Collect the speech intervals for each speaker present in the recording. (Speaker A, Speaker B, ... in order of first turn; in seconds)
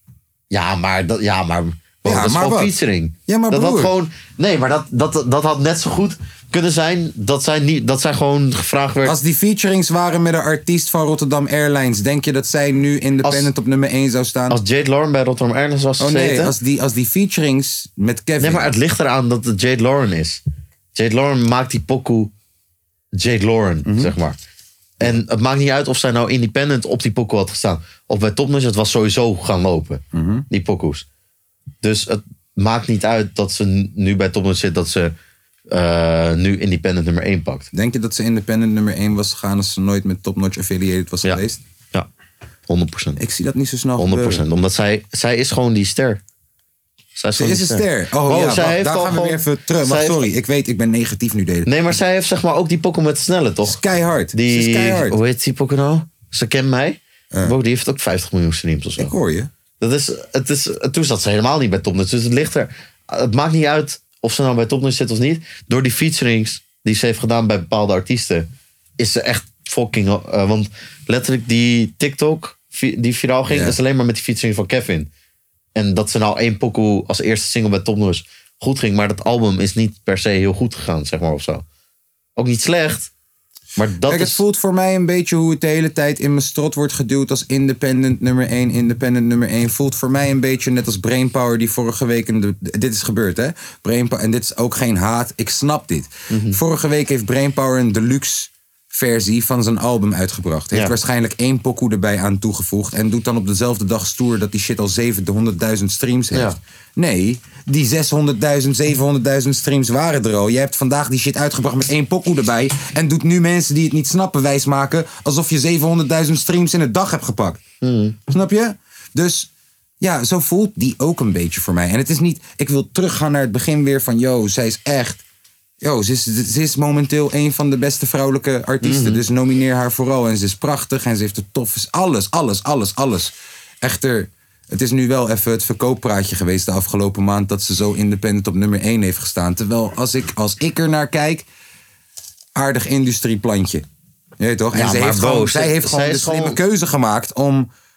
Speaker A: 0.5-9.2, 13.2-13.5, 14.5-16.5, 18.4-20.4, 20.9-22.3, 23.1-24.4, 25.0-31.0, 31.8-35.1, 35.7-37.7, 42.7-43.2, 44.0-46.2, 47.1-50.2, 51.6-53.8, 54.3-59.1, 59.8-75.1, 75.7-81.6, 82.3-83.1, 83.8-84.4, 96.3-96.6, 106.3-106.6, 117.8-118.2, 128.8-129.2, 144.7-146.6
Speaker B: 2.0-2.8, 3.3-3.9, 9.0-14.6, 16.0-18.7, 23.8-24.1, 30.1-30.4, 37.7-41.6, 43.2-44.4, 47.3-51.7, 53.6-55.2, 59.0-59.5, 73.5-73.8, 84.1-117.6, 118.3-119.5, 120.0-125.2, 125.8-141.4, 142.6-143.8, 144.4-147.7